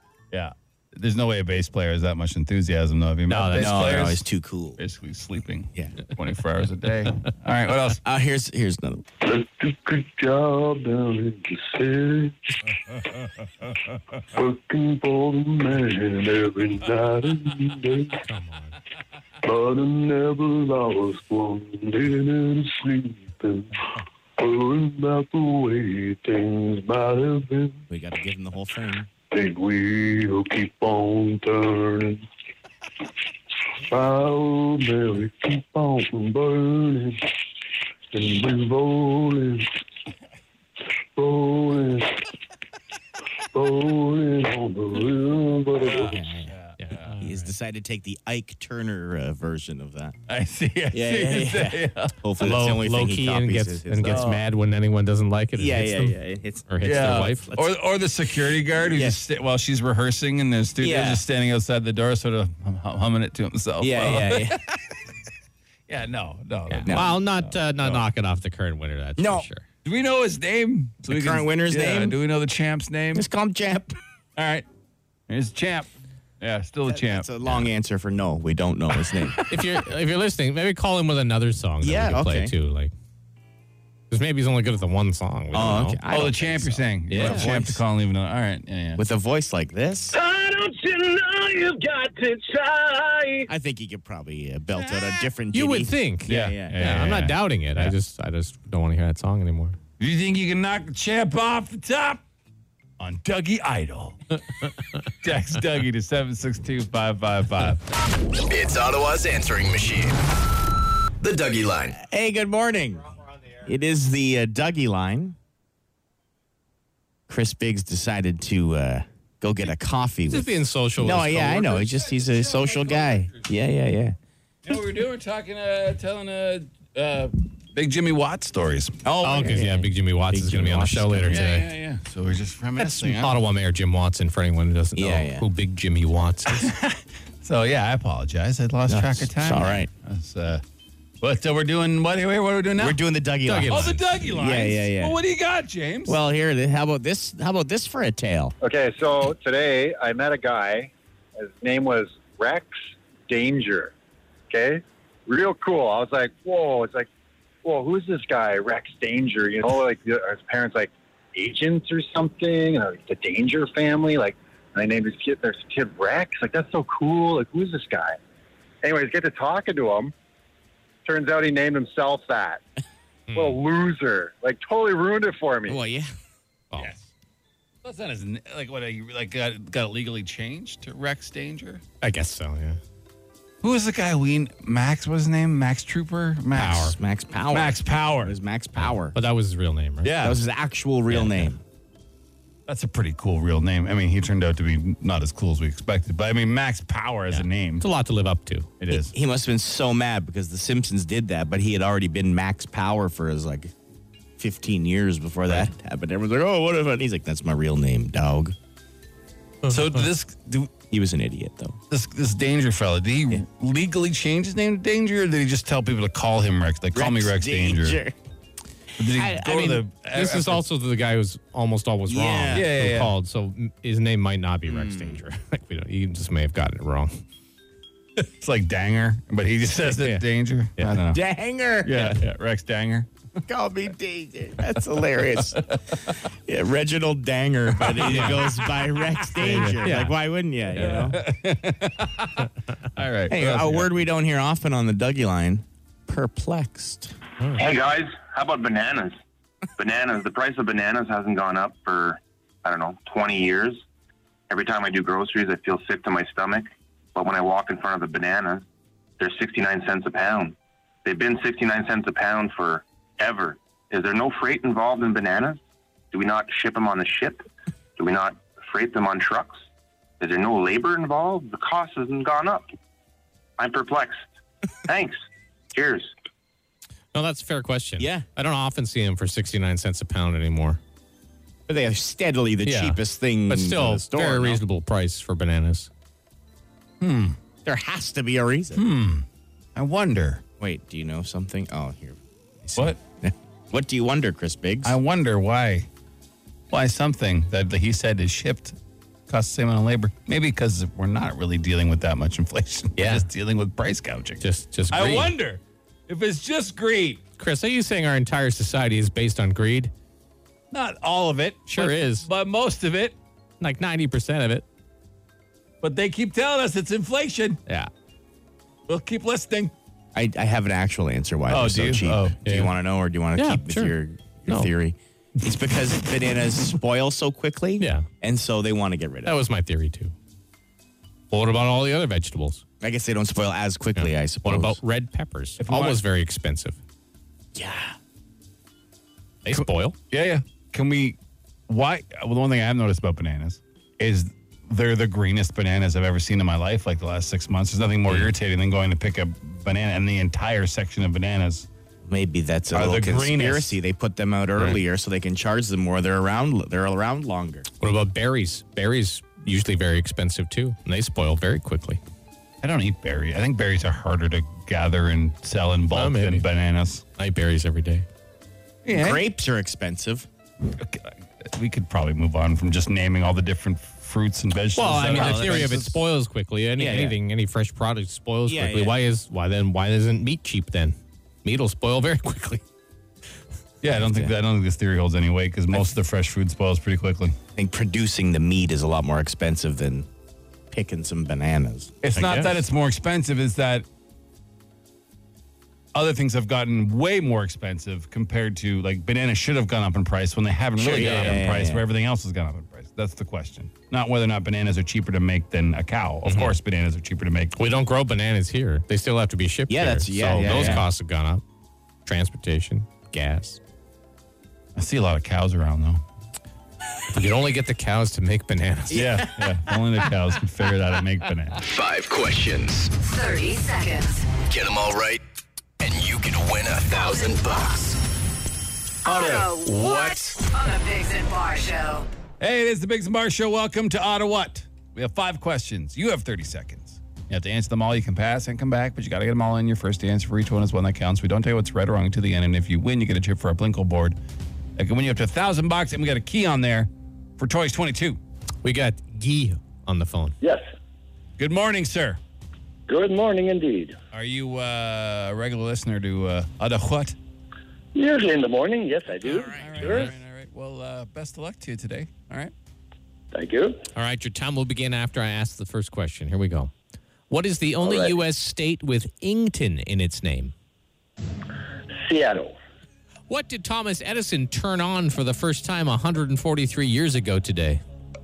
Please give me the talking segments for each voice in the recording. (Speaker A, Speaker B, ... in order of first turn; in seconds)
Speaker A: 0.3-4.3, 4.8-8.0, 13.1-14.0, 45.8-47.1, 50.3-52.2, 54.1-54.4, 56.8-64.6, 65.9-68.0, 69.8-73.3, 74.4-74.7, 75.3-75.9, 76.4-77.7, 79.0-79.4, 86.1-89.0, 96.3-97.9, 100.0-102.2, 103.0-104.2, 105.2-107.8, 121.9-123.5, 124.7-129.1, 131.3-133.4, 136.5-140.6, 141.2-143.0, 143.7-146.2, 177.8-181.8, 183.6-187.0, 187.5-188.4, 190.0-190.4, 192.7-197.8, 209.7-210.8, 211.9-218.0, 219.0-220.6, 222.5-223.1, 228.3-231.2, 231.8-233.1, 235.5-235.9, 237.8-238.7, 239.3-239.9, 240.8-244.0, 282.6-283.0, 287.0-287.4, 288.8-290.4, 294.8-295.9, 296.7-298.8, 299.3-307.2, 310.7-313.2, 315.8-317.6, 318.9-319.7, 321.5-322.4, 335.6-336.0, 339.5-341.2, 341.7-351.7, 352.7-353.8, 362.6-367.0, 368.9-369.2, 370.7-375.9, 383.8-387.4, 392.0-393.9, 395.9-407.6, 410.4-410.9, 414.8-416.0, 418.9-421.6, 432.4-444.2, 444.8-448.2, 451.4-452.2, 454.1-457.2, 459.4-462.5
Speaker B: 3.3-4.0, 18.2-18.8, 46.8-47.5, 52.4-57.5, 66.7-69.6, 79.5-82.9, 84.1-86.0, 87.1-87.5, 95.5-99.8, 120.3-121.9, 129.2-131.7, 132.8-136.7, 143.5-144.1, 173.3-173.6, 176.7-177.0, 182.0-182.8, 186.6-187.0, 188.8-190.3, 191.1-191.6, 197.3-199.1, 219.2-227.2, 229.9-230.2, 230.8-231.0, 238.0-238.4, 239.4-240.2, 240.8-241.1, 277.1-280.8, 283.5-285.9, 303.0-303.3, 304.4-305.3, 307.4-309.9, 311.7-312.3, 313.6-314.6, 322.4-322.7, 323.4-323.9, 327.8-328.1, 329.2-330.1, 331.3-332.6, 334.0-336.8, 339.4-340.0, 348.1-348.3, 357.8-362.0, 365.9-366.4, 367.2-368.1, 374.9-382.6, 392.2-392.5, 400.9-401.4, 406.2-406.6, 407.6-411.4, 412.1-413.6, 417.1-419.1, 448.6-450.4, 459.8-460.1, 463.9-466.7, 467.3-470.5, 473.3-477.8
Speaker C: 3.5-4.8, 8.0-9.1, 27.9-29.1, 45.9-46.6, 47.2-50.2, 50.9-54.4, 55.6-57.7, 58.8-59.2, 60.8-61.2, 63.8-64.7, 66.8-67.1, 69.2-69.5, 71.0-72.2, 73.1-73.9, 76.9-79.4, 81.8-82.5, 85.5-87.8, 89.0-90.2, 93.5-97.0, 111.9-115.3, 117.3-124.2, 129.0-131.5, 135.0-135.5, 138.9-139.9, 142.8-145.2, 146.1-148.6, 175.7-176.1, 186.6-189.2, 190.2-191.6, 198.9-203.7, 204.4-208.6, 210.9-211.8, 216.9-218.2, 222.1-222.7, 224.7-225.2, 231.1-232.1, 233.5-235.7, 236.5-241.2, 243.3-247.2, 278.0-278.3, 281.7-284.6, 287.6-288.8, 290.6-295.0, 320.1-329.4, 332.8-334.8, 337.6-338.0, 352.1-357.7, 368.9-370.3, 374.8-375.9, 376.8-377.2, 378.5-379.0, 387.6-390.1, 390.7-392.4, 400.8-401.8, 409.7-410.9, 418.9-419.5, 459.3-459.7
Speaker D: 9.2-12.5, 14.3-18.2, 19.4-23.8, 24.4-27.8, 29.3-32.3, 33.8-37.2, 38.1-39.7, 41.1-42.1, 43.5-46.2
Speaker E: 90.1-93.5, 148.6-153.9, 154.5-157.1, 157.6-168.2, 168.8-170.1, 171.1-172.6, 173.3-175.8
Speaker F: 108.5-110.2, 111.2-112.0, 421.6-422.9, 424.4-425.2, 425.8-428.0, 429.1-430.1
Speaker G: 247.6-249.2, 249.8-253.8, 254.5-258.6, 259.2-265.6, 266.1-267.4, 268.0-269.6, 270.2-272.7, 273.6-274.2, 274.9-275.2, 275.7-276.1
Speaker H: 423.0-424.3, 426.9-427.7, 429.1-432.1
Speaker I: 452.9-454.0, 457.9-460.1, 463.3-463.8, 467.8-468.1, 472.0-472.6